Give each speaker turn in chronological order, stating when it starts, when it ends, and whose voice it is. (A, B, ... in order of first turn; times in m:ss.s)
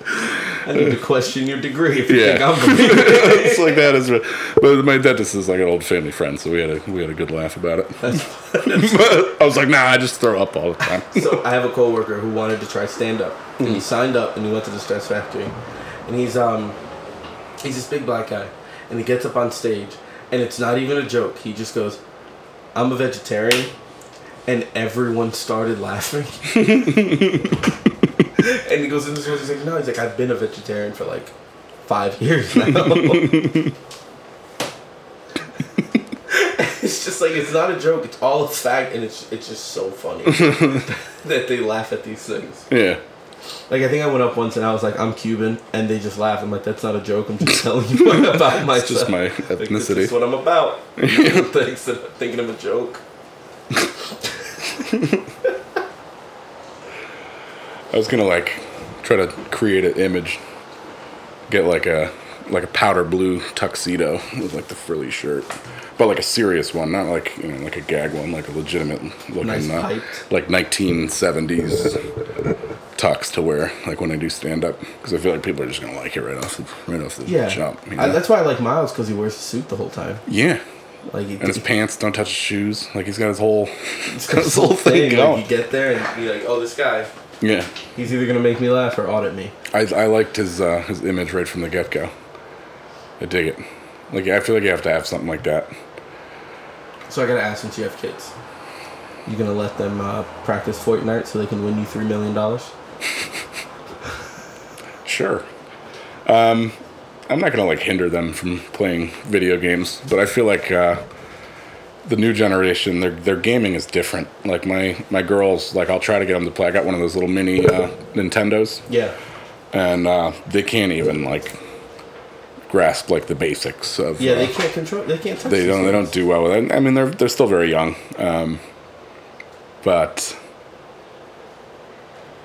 0:00.6-0:03.8 A
0:02.1-0:11.4 B
0:08.0-0:09.3 A
0:11.1-0:15.6 A
0:16.1-0:16.8 A
0:17.6-0:22.0 A
0:22.8-0:23.7 A
0:24.4-0:27.4 A
0:26.7-0:27.4 B
0:28.4-0:31.3 A
0:31.9-0:33.6 A
0:32.7-0:33.7 B
0:36.3-0:42.7 A
0:40.3-0:40.8 B
0:42.7-0:43.0 B
0:43.7-0:53.0 A
0:47.9-0:50.2 B
0:51.0-0:51.5 B
0:57.9-1:00.4 B
1:01.5-1:12.0 B
1:09.4-1:10.2 A
1:13.0-1:18.2 B
1:17.3-1:20.2 A
1:20.3-1:20.6 B
1:21.1-1:21.7 A
1:21.4-1:25.4 B
1:24.1-1:27.1 A
1:27.4-1:27.7 B
1:28.0-1:29.6 A
1:29.7-1:32.1 B
1:33.2-1:35.7 B
1:37.1-1:38.3 A
1:39.3-1:42.7 A
1:45.0-1:45.4 B
1:46.3-1:46.8 B
1:47.3-1:51.0 B
1:52.0-1:58.8 B
1:58.9-1:59.1 A
1:59.7-2:01.6 B
2:02.7-2:04.5 B
2:04.2-2:06.1 A
2:05.5-2:08.6 B
2:09.8-2:10.4 B